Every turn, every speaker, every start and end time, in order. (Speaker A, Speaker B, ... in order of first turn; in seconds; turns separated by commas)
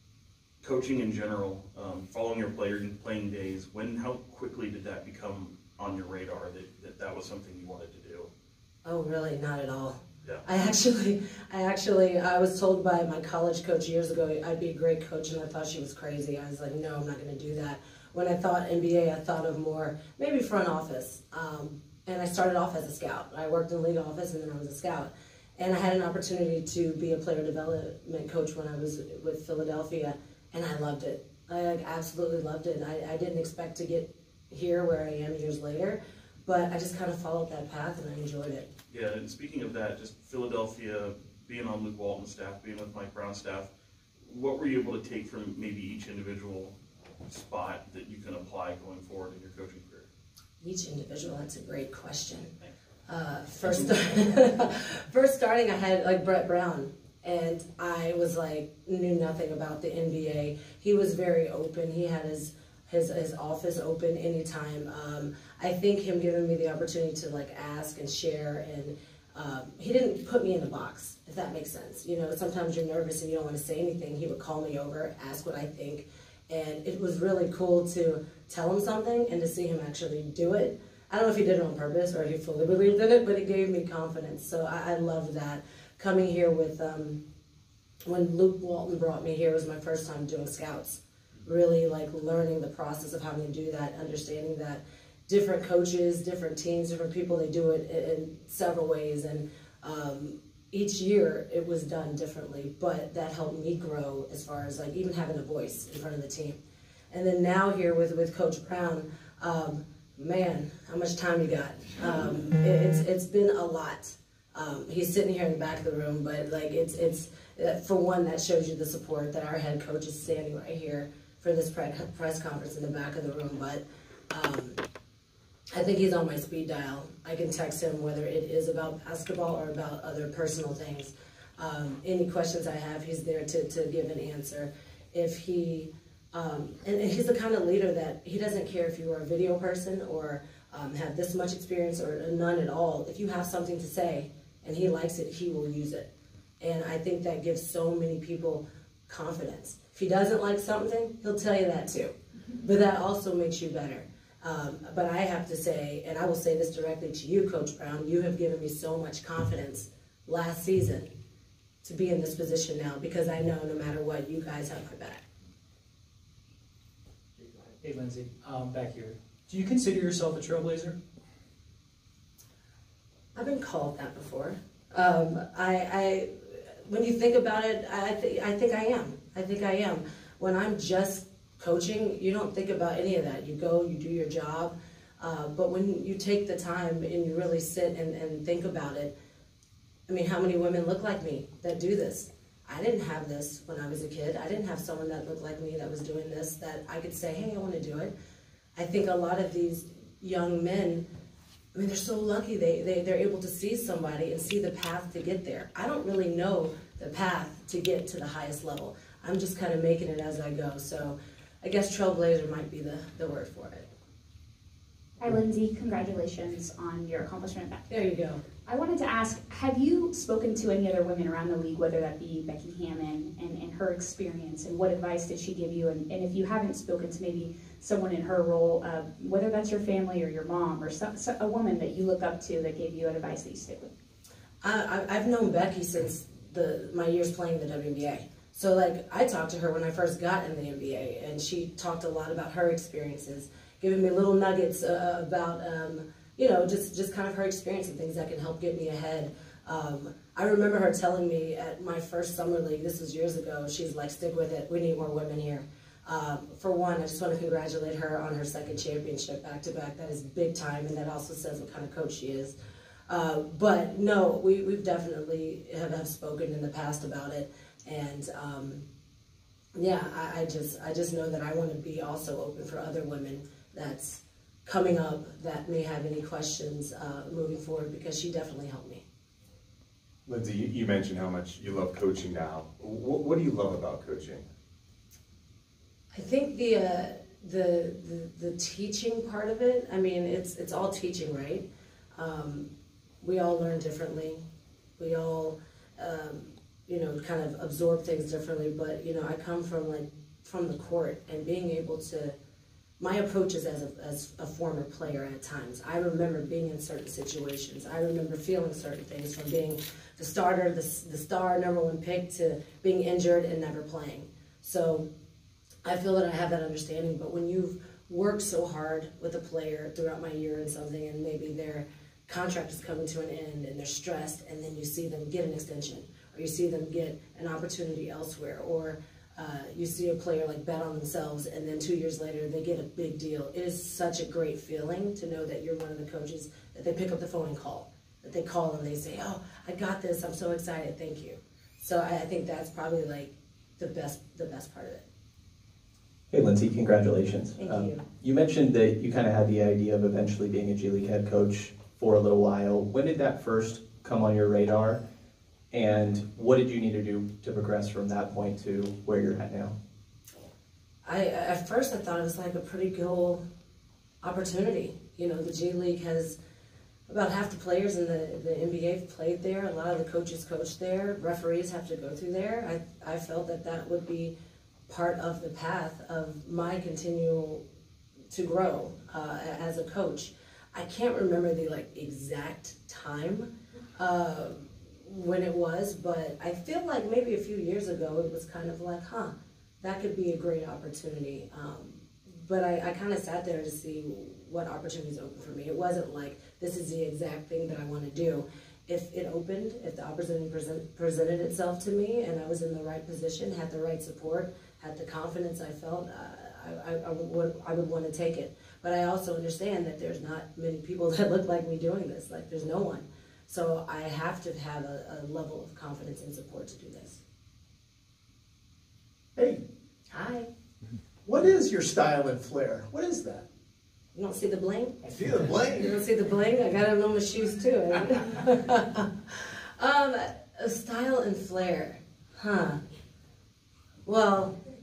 Speaker A: 0.6-8.3, Speaker B: 8.8-38.7, Speaker A: 38.9-43.7, Speaker A: 44.2-46.7, Speaker A: 47.3-50.1, Speaker B: 50.6-52.5, Speaker B: 53.1-87.2, Speaker B: 88.1-106.6, Speaker B: 107.1-124.8, Speaker B: 125.7-146.1, Speaker B: 146.6-161.1, Speaker B: 161.8-165.2, Speaker C: 167.4-171.0, Speaker B: 173.3-189.1, Speaker B: 190.1-198.1, Speaker B: 198.8-201.1, Speaker B: 201.7-213.9, Speaker D: 215.2-217.9, Speaker B: 217.9-218.4, Speaker D: 218.7-233.9, Speaker B: 234.6-262.5, Speaker B: 263.1-268.8, Speaker B: 269.8-279.0, Speaker E: 280.3-284.4, Speaker B: 286.1-292.7, Speaker B: 293.2-294.4, Speaker B: 295.0-302.3, Speaker B: 303.0-315.1, Speaker B: 315.8-345.0, Speaker F: 346.3-355.0, Speaker B: 347.6-348.0, Speaker F: 355.7-359.7, Speaker B: 361.0-363.4, Speaker B: 364.2-366.4, Speaker B: 367.1-374.3, Speaker B: 374.9-377.6, Speaker B: 378.3-417.2, Speaker B: 420.1-420.5, Speaker G: 421.3-423.4, Speaker B: 424.1-425.0, Speaker B: 425.5-432.8, Speaker B: 434.0-434.6